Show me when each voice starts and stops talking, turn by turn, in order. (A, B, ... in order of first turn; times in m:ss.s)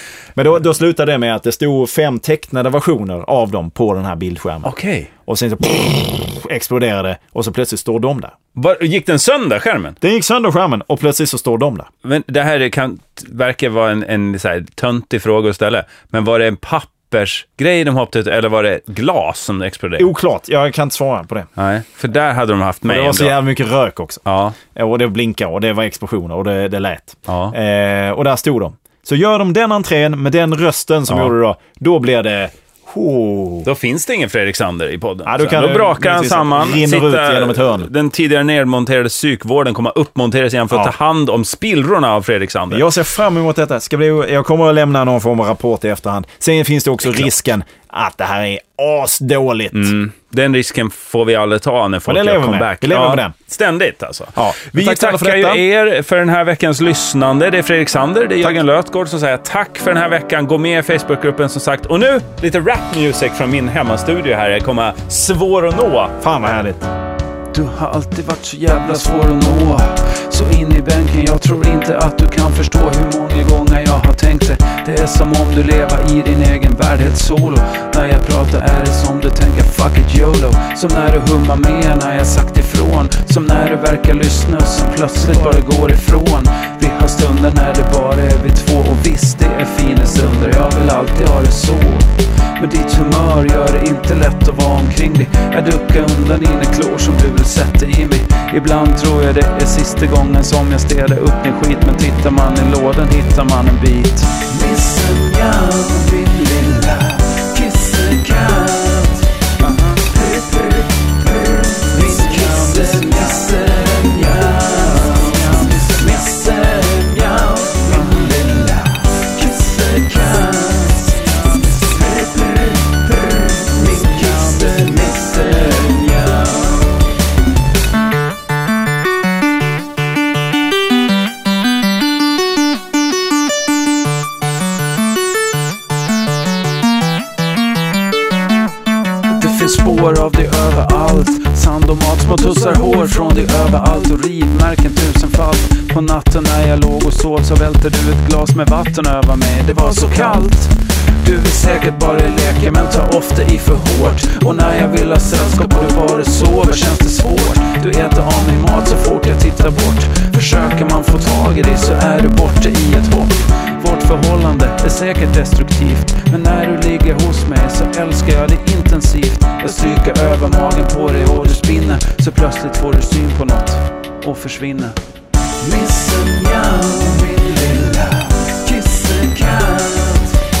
0:00.4-0:04.7 A
0:04.6-0:05.1 B
0:05.2-0:08.3 A
0:08.5-0:10.0 B
0:10.0-0:11.9 A
0:12.0-0:20.1 B
0:20.0-0:21.5 A
0:21.6-0:23.4 B
0:22.8-0:33.7 A
0:24.2-0:24.6 B
0:27.3-0:27.5 B
0:33.6-0:42.8 B
0:35.2-0:37.9 A
0:42.7-0:49.9 A
0:49.7-1:06.2 B
0:52.0-0:53.3 A
0:54.4-0:55.6 A
1:06.2-1:06.9 A
1:07.5-2:06.7 C
2:19.3-2:55.0 C
2:55.6-3:00.4 C